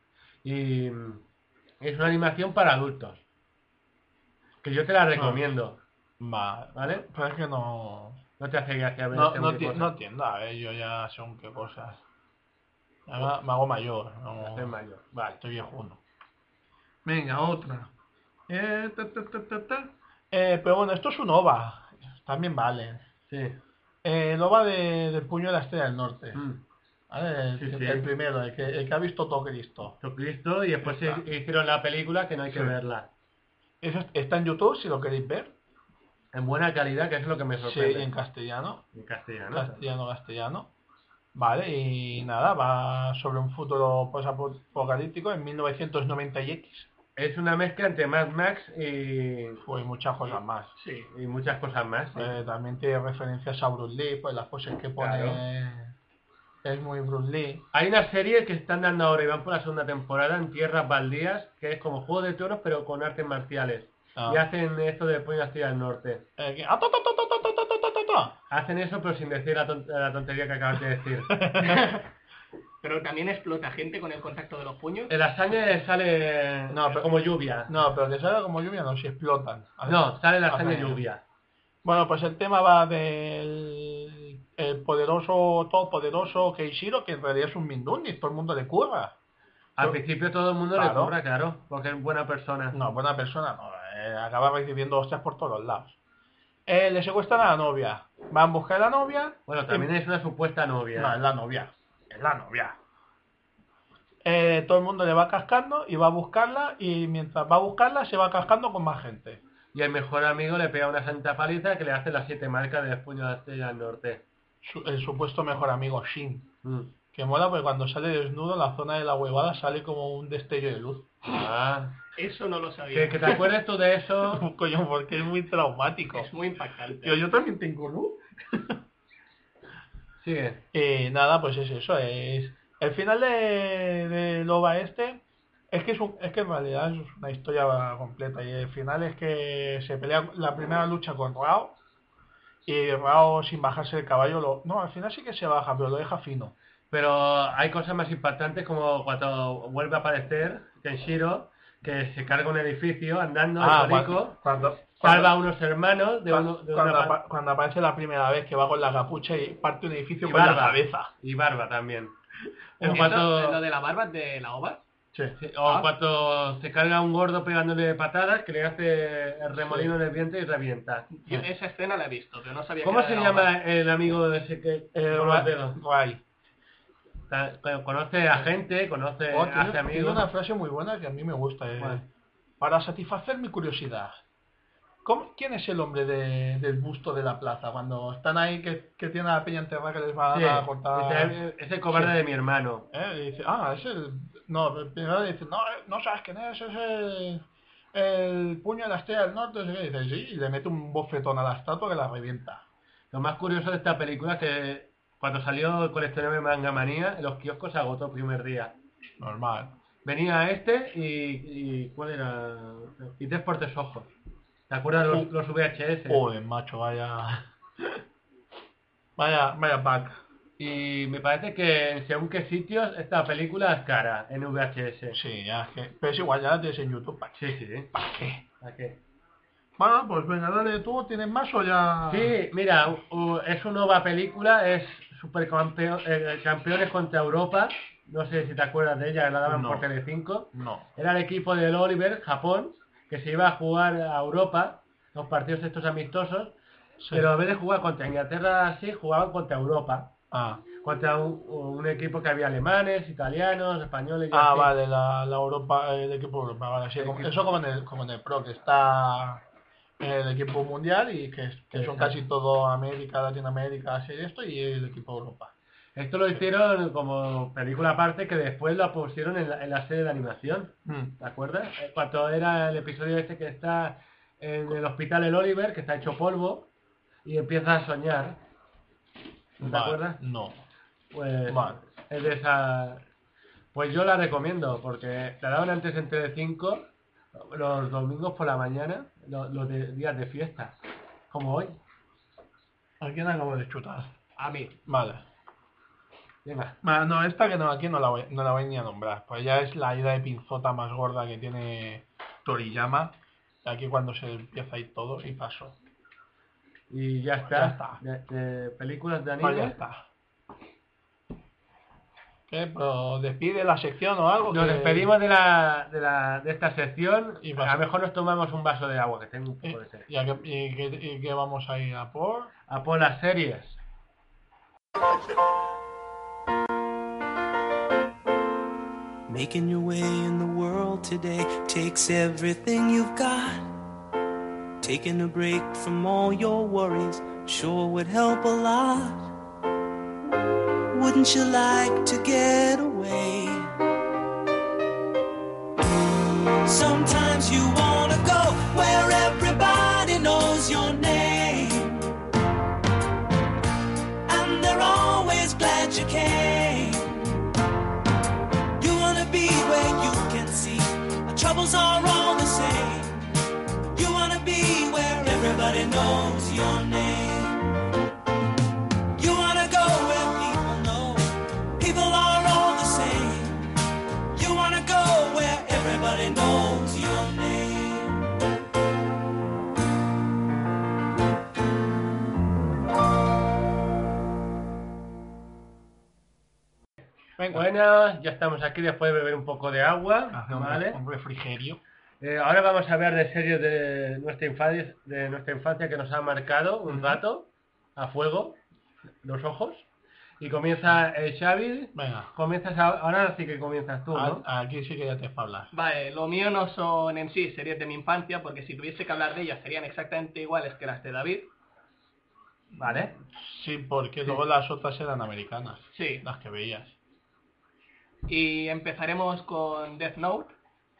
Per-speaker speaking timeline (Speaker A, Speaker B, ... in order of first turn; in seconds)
Speaker A: 0.4-1.2, 1.8-3.2, 4.6-5.8, 6.7-7.0, 8.4-9.9, 14.4-15.4, 23.3-23.6, 26.3-26.6, 27.6-28.1, 30.0-33.1, 36.3-38.1, 38.9-39.8, 47.2-49.6, 51.1-52.3, 55.0-55.4, 57.7-66.2, 68.5-71.3, 75.1-77.7, 79.8-81.2, 89.8-92.8, 99.5-101.2, 109.7-114.2, 116.6-116.9, 121.3-122.0, 122.9-124.5, 130.2-130.6, 146.9-154.4, 155.0-157.2, 160.2-162.1, 162.8-163.6, 165.4-171.1, 172.8-175.8, 177.3-180.3, 190.3-192.8, 203.1-208.7, 210.0-214.1, 214.7-216.2, 220.6-225.2, 227.4-227.9, 228.6-229.0, 232.1-246.6, 247.1-250.1, 250.8-254.7, 256.9-257.3, 261.7-262.2, 265.9-276.7, 277.2-278.4, 279.6-280.2, 281.1-283.0, 283.7-290.7, 291.3-291.8, 294.4-294.7, 296.4-296.8, 306.9-309.8, 314.5-320.1, 322.7-323.8, 387.5-391.0, 392.2-398.6, 399.2-399.9, 400.4-404.4, 412.8-413.1
Speaker B: 5.1-5.4, 6.2-8.2, 9.1-12.0, 13.1-14.7, 15.4-16.0, 17.0-17.9, 18.5-23.0, 24.0-26.4, 27.1-29.9, 30.8-31.2, 33.8-35.5, 37.6-38.8, 39.5-40.7, 41.3-46.9, 49.6-50.7, 52.1-55.9, 56.6-57.6, 64.2-64.4, 66.4-68.3, 71.3-71.8, 76.7-77.1, 77.7-81.0, 81.8-89.1, 90.7-91.1, 92.7-96.0, 96.7-99.9, 100.9-102.8, 104.2-109.4, 114.6-116.5, 117.1-121.1, 124.3-126.3, 127.0-128.8, 130.7-141.8, 142.6-146.5, 153.6-155.4, 156.3-161.1, 162.8-163.2, 165.1-165.8, 169.5-169.9, 174.9-176.2, 179.3-182.1, 182.6-184.2, 185.0-191.4, 192.9-202.6, 209.2-209.7, 216.1-218.0, 219.2-220.2, 225.1-228.4, 229.8-232.4, 239.4-239.8, 240.5-240.9, 247.0-247.3, 250.3-250.6, 254.3-259.4, 260.0-265.5, 270.9-271.1, 279.6-280.6, 281.5-281.8, 293.0-294.1, 294.9-295.2, 296.8-305.8, 307.5-308.0, 309.4-310.0, 312.5-315.1, 317.4-317.8, 319.6-322.5, 387.4-387.7, 390.3-391.8, 396.9-397.2, 401.9-402.3, 404.1-405.7, 413.3-416.9
Speaker C: 50.8-51.1, 71.6-72.0, 72.8-75.1, 122.2-123.4, 126.1-127.2, 162.8-164.8, 171.1-173.5, 405.7-411.5, 415.9-416.2, 418.3-420.5
Speaker D: 329.3-333.7, 334.8-339.3, 340.9-343.8, 346.6-352.1, 354.2-357.3, 358.8-363.3, 363.9-367.7, 369.1-373.8, 374.3-378.3